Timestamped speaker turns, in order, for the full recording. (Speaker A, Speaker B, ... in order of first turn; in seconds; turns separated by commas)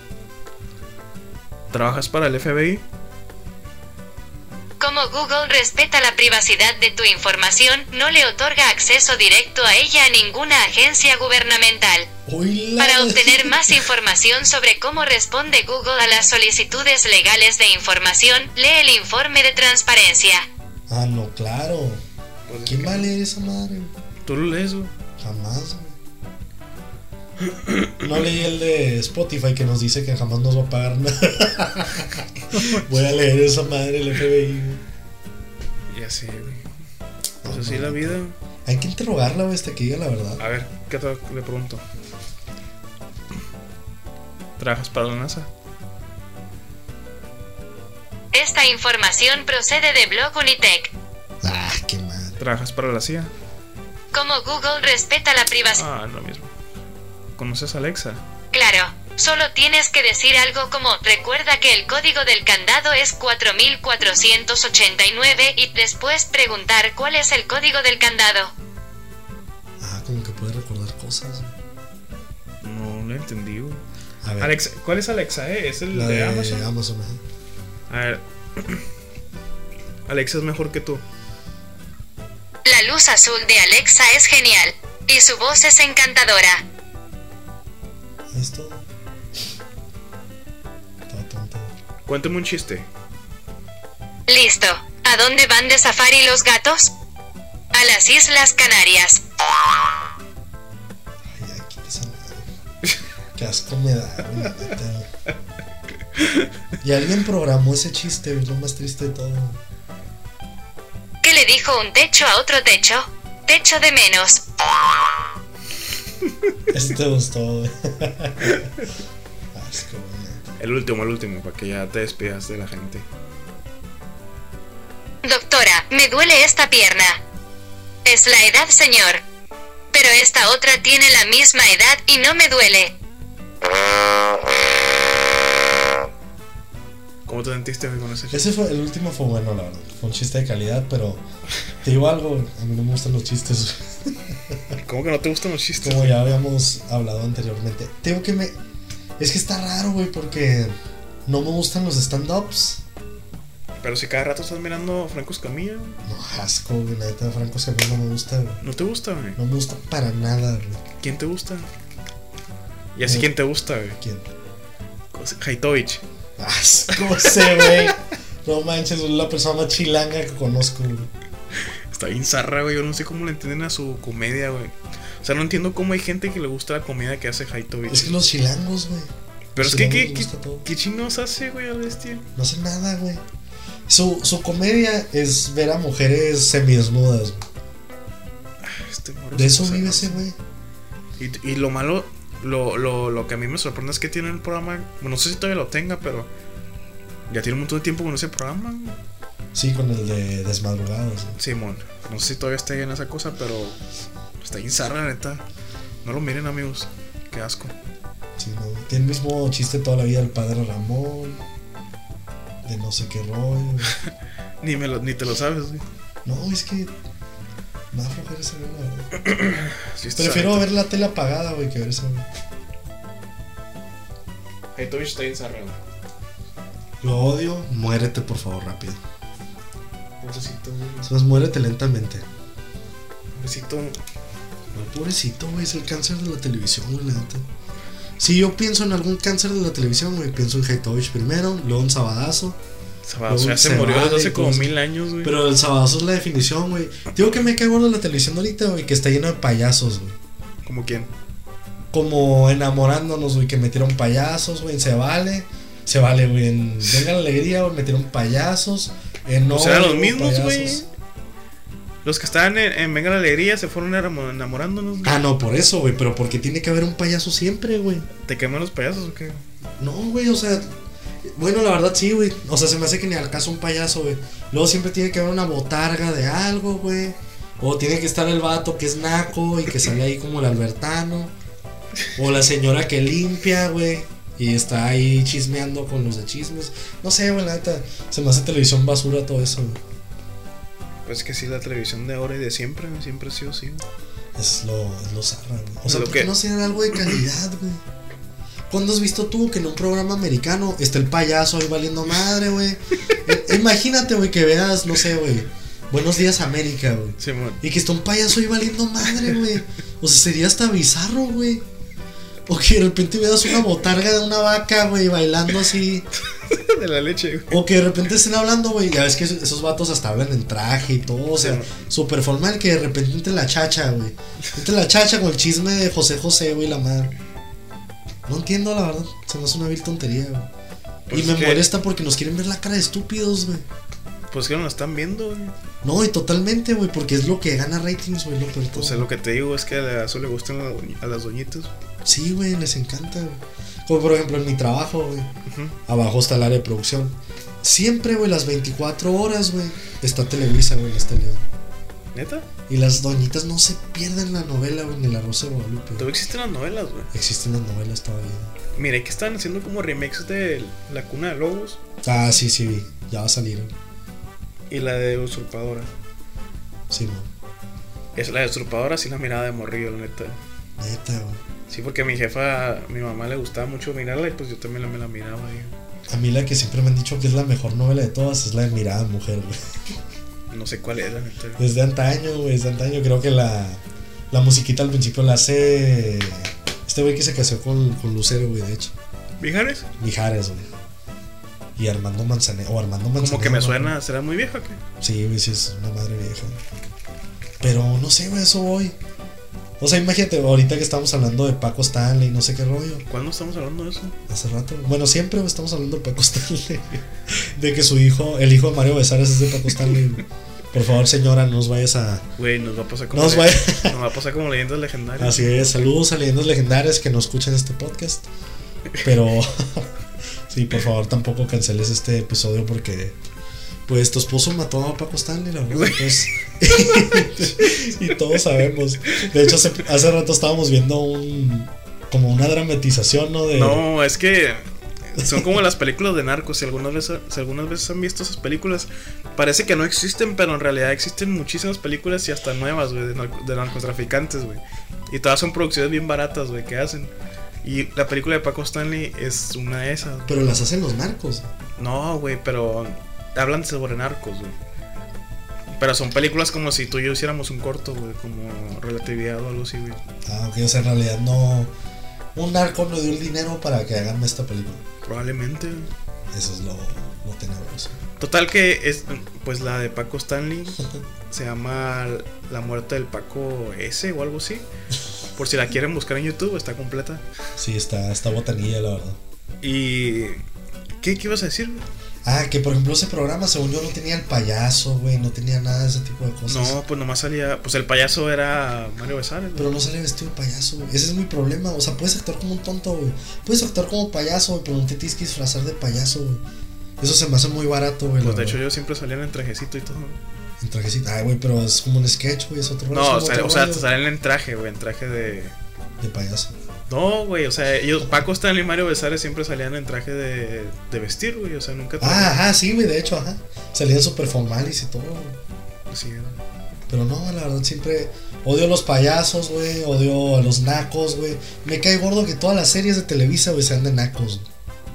Speaker A: 1.7-2.8, Speaker B: 4.8-12.1, Speaker C: 12.3-13.8, Speaker B: 12.8-20.4, Speaker C: 20.9-22.0, Speaker A: 22.5-23.1, Speaker C: 22.7-23.9, Speaker A: 24.2-24.9, Speaker C: 25.2-26.0, Speaker A: 27.4-27.9, Speaker C: 28.0-34.8, Speaker A: 32.5-32.8, Speaker A: 35.9-36.7, Speaker C: 37.4-40.4, Speaker A: 37.5-38.3, Speaker A: 40.4-41.8, Speaker A: 44.6-45.5, Speaker B: 48.3-50.9, Speaker C: 51.4-52.4, Speaker A: 52.4-53.3, Speaker B: 54.1-55.8, Speaker A: 55.7-56.5, Speaker A: 57.4-58.2, Speaker B: 58.5-68.5, Speaker C: 69.8-71.5, Speaker A: 72.6-73.8, Speaker C: 74.2-74.5, Speaker A: 74.4-76.7, Speaker C: 75.9-77.2, Speaker A: 77.9-78.8, Speaker A: 80.1-81.0, Speaker B: 82.6-86.6, Speaker C: 88.3-88.8, Speaker C: 91.1-91.7, Speaker A: 92.0-92.9, Speaker B: 94.3-96.9, Speaker B: 97.7-99.2, Speaker C: 101.2-102.5, Speaker C: 103.3-105.1, Speaker A: 106.2-106.5, Speaker C: 106.8-109.6, Speaker B: 111.2-114.4, Speaker C: 116.7-118.7, Speaker C: 119.5-120.4, Speaker A: 120.6-123.0, Speaker B: 125.2-127.2, Speaker B: 128.0-129.2, Speaker B: 129.9-132.9, Speaker A: 137.2-138.5, Speaker C: 138.3-141.2, Speaker C: 141.8-144.7, Speaker A: 144.8-146.2, Speaker C: 145.8-148.6, Speaker C: 149.2-152.8, Speaker A: 153.8-156.0, Speaker C: 156.0-158.6, Speaker A: 158.6-159.4, Speaker C: 159.4-160.8, Speaker A: 161.0-161.7, Speaker A: 162.9-164.0, Speaker C: 163.0-163.3, Speaker C: 164.0-164.3, Speaker A: 165.1-166.0, Speaker C: 166.4-171.1, Speaker A: 166.9-167.9, Speaker A: 171.9-178.2, Speaker C: 177.9-180.7, Speaker A: 179.5-182.2, Speaker C: 182.3-183.2, Speaker C: 183.9-187.4, Speaker A: 188.6-190.2, Speaker C: 189.3-190.4, Speaker A: 191.2-196.3, Speaker A: 197.3-199.0, Speaker C: 199.5-201.4, Speaker A: 201.3-203.8, Speaker A: 204.4-205.4, Speaker A: 206.0-207.7, Speaker C: 208.4-211.4, Speaker C: 212.6-214.0, Speaker A: 214.6-215.8, Speaker C: 216.2-216.9, Speaker C: 217.9-219.1, Speaker A: 219.1-220.7, Speaker C: 220.2-222.3, Speaker A: 224.7-225.8, Speaker C: 227.0-229.0, Speaker A: 230.2-231.1, Speaker C: 231.0-232.2, Speaker A: 233.3-234.0, Speaker C: 234.7-237.4, Speaker C: 238.2-242.6, Speaker A: 243.1-245.3, Speaker C: 243.3-250.2, Speaker A: 250.6-251.1, Speaker C: 251.9-260.9, Speaker A: 259.5-260.9, Speaker A: 262.0-265.2, Speaker C: 265.0-268.1, Speaker A: 268.2-269.4, Speaker C: 269.8-270.7, Speaker C: 271.2-281.3, Speaker C: 282.1-289.8, Speaker A: 291.1-293.8, Speaker C: 294.4-297.8, Speaker A: 295.9-296.3, Speaker C: 298.7-311.6, Speaker A: 307.2-307.6, Speaker A: 309.1-309.4, Speaker C: 312.5-316.1, Speaker A: 316.3-317.6, Speaker C: 317.5-327.1, Speaker A: 321.4-321.7, Speaker C: 328.2-330.5, Speaker A: 331.1-331.7, Speaker C: 331.1-333.6, Speaker A: 334.3-335.5, Speaker C: 335.8-339.1, Speaker A: 338.7-341.7, Speaker C: 342.0-345.3, Speaker A: 345.4-345.8, Speaker C: 345.9-351.5, Speaker A: 352.1-352.5, Speaker C: 352.7-356.1, Speaker A: 356.0-357.1, Speaker C: 357.1-358.5, Speaker A: 358.7-361.8, Speaker C: 362.0-363.7, Speaker A: 364.7-365.9, Speaker C: 366.9-367.3, Speaker A: 368.1-370.4, Speaker C: 370.8-371.4, Speaker A: 371.7-375.7, Speaker C: 376.1-379.8, Speaker A: 380.5-381.6, Speaker C: 381.6-388.9, Speaker A: 389.4-389.9, Speaker C: 390.0-390.7, Speaker C: 391.8-393.9, Speaker A: 393.2-394.8, Speaker C: 395.0-396.6, Speaker C: 397.6-398.9, Speaker C: 399.8-403.1, Speaker A: 403.1-404.1, Speaker C: 404.3-412.2, Speaker A: 412.4-415.5, Speaker C: 413.1-414.0, Speaker C: 415.2-418.3, Speaker C: 419.0-419.9, Speaker C: 420.5-423.2, Speaker C: 423.9-433.9, Speaker A: 425.7-428.4, Speaker A: 433.5-447.1, Speaker A: 447.6-450.4, Speaker C: 450.3-451.5, Speaker A: 451.8-454.6, Speaker A: 455.7-460.0, Speaker C: 460.2-461.7, Speaker C: 462.3-464.8, Speaker A: 465.0-465.9, Speaker C: 466.3-468.0, Speaker A: 468.2-474.7, Speaker A: 475.4-477.2, Speaker C: 477.6-479.2, Speaker A: 479.6-480.4, Speaker A: 481.0-481.8, Speaker C: 482.2-486.8, Speaker A: 486.5-489.8, Speaker C: 489.6-496.4, Speaker C: 497.0-498.6, Speaker A: 498.2-500.2, Speaker C: 500.6-503.9, Speaker A: 502.9-505.5, Speaker C: 506.0-506.5, Speaker A: 506.9-512.4, Speaker C: 512.0-515.4, Speaker A: 515.9-516.4, Speaker C: 516.9-524.5